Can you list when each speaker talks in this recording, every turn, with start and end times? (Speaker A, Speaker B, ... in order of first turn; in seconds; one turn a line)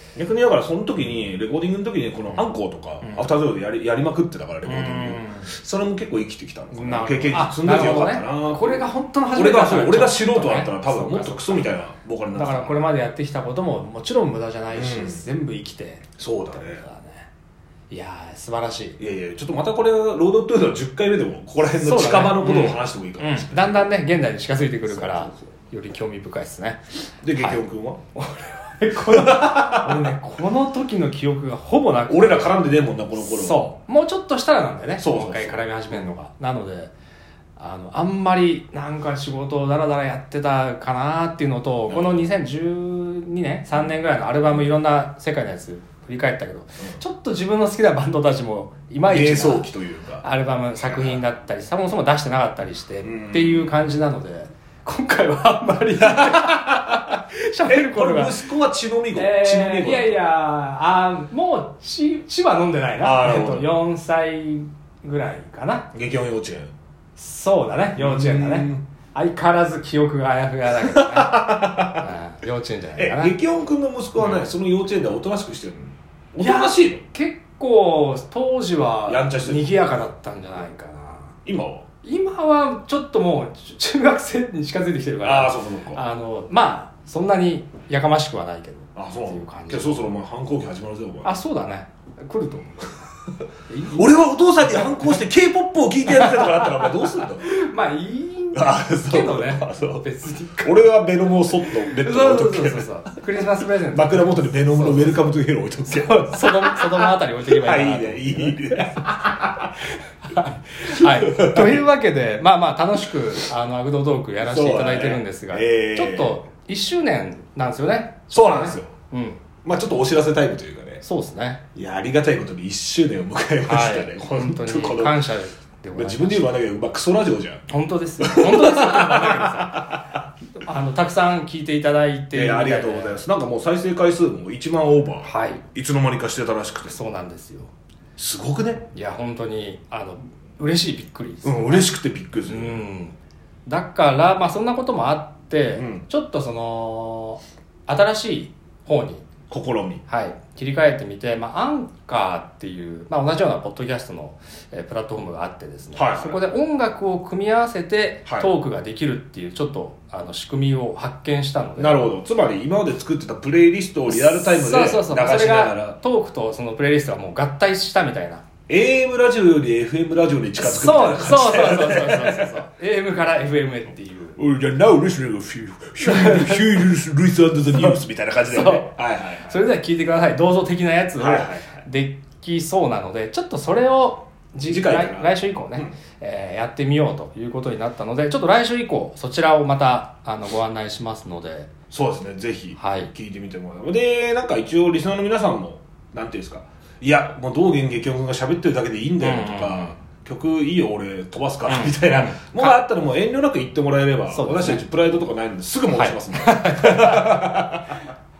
Speaker A: 0.1-12.9
Speaker B: 3.0-3.3
Speaker B: 4.6-5.5
Speaker B: 6.7-11.7
Speaker B: 12.3-17.3
Speaker A: 14.7-15.2
Speaker A: 16.2-16.8
Speaker B: 17.9-19.0
Speaker A: 19.0-23.9
Speaker B: 21.8-27.6
Speaker A: 24.9-25.4
Speaker A: 27.2-28.0
Speaker B: 28.1-36.9
Speaker A: 29.1-30.1
Speaker A: 32.1-33.7
Speaker A: 35.0-35.6
Speaker B: 37.6-49.7
Speaker A: 41.9-42.3
Speaker A: 49.0-50.2
Speaker B: 50.2-58.5
Speaker A: 50.8-51.2
Speaker A: 53.0-53.8
Speaker A: 56.0-57.0
Speaker A: 57.7-60.2
Speaker B: 59.1-65.9
Speaker A: 63.0-63.7
Speaker A: 65.9-66.7
Speaker B: 67.2-73.3
Speaker A: 68.0-68.8
Speaker A: 70.8-72.1
Speaker A: 73.0-77.0
Speaker B: 74.2-74.5
Speaker B: 76.4-81.3
Speaker A: 79.1-79.9
Speaker A: 81.4-81.9
Speaker B: 82.0-90.1
Speaker A: 85.2-86.0
Speaker A: 88.9-91.3
Speaker B: 91.2-93.0
Speaker B: 93.7-95.2
Speaker A: 93.9-97.5
Speaker B: 96.1-100.8
Speaker A: 98.5-100.0
Speaker A: 100.6-102.9
Speaker B: 101.7-105.3
Speaker A: 103.9-109.8
Speaker B: 105.8-109.2
Speaker B: 110.3-119.4
Speaker A: 110.8-111.8
Speaker A: 114.4-116.4
Speaker A: 118.3-118.9
Speaker A: 119.6-121.0
Speaker B: 121.0-121.6
Speaker A: 121.7-125.3
Speaker B: 123.6-126.5
Speaker A: 125.9-127.7
Speaker B: 127.7-130.0
Speaker A: 128.2-130.0
Speaker B: 130.5-133.2
Speaker A: 132.3-137.0
Speaker B: 135.2-135.6
Speaker B: 136.9-137.7
Speaker A: 138.2-138.9
Speaker B: 138.9-141.9
Speaker A: 141.4-142.8
Speaker B: 142.5-149.3
Speaker A: 145.7-146.1
Speaker A: 149.5-150.0
Speaker B: 150.1-162.1
Speaker A: 155.9-156.4
Speaker A: 158.2-158.5
Speaker A: 161.8-166.0
Speaker B: 164.1-168.4
Speaker A: 168.7-172.5
Speaker B: 170.6-174.4
Speaker A: 174.4-179.6
Speaker B: 176.0-176.8
Speaker B: 177.7-178.9
Speaker B: 179.5-191.7
Speaker A: 181.2-181.8
Speaker A: 184.7-185.9
Speaker A: 191.9-207.9
Speaker B: 192.8-193.1
Speaker B: 199.2-199.9
Speaker B: 201.7-202.8
Speaker B: 204.3-204.8
Speaker B: 205.9-207.7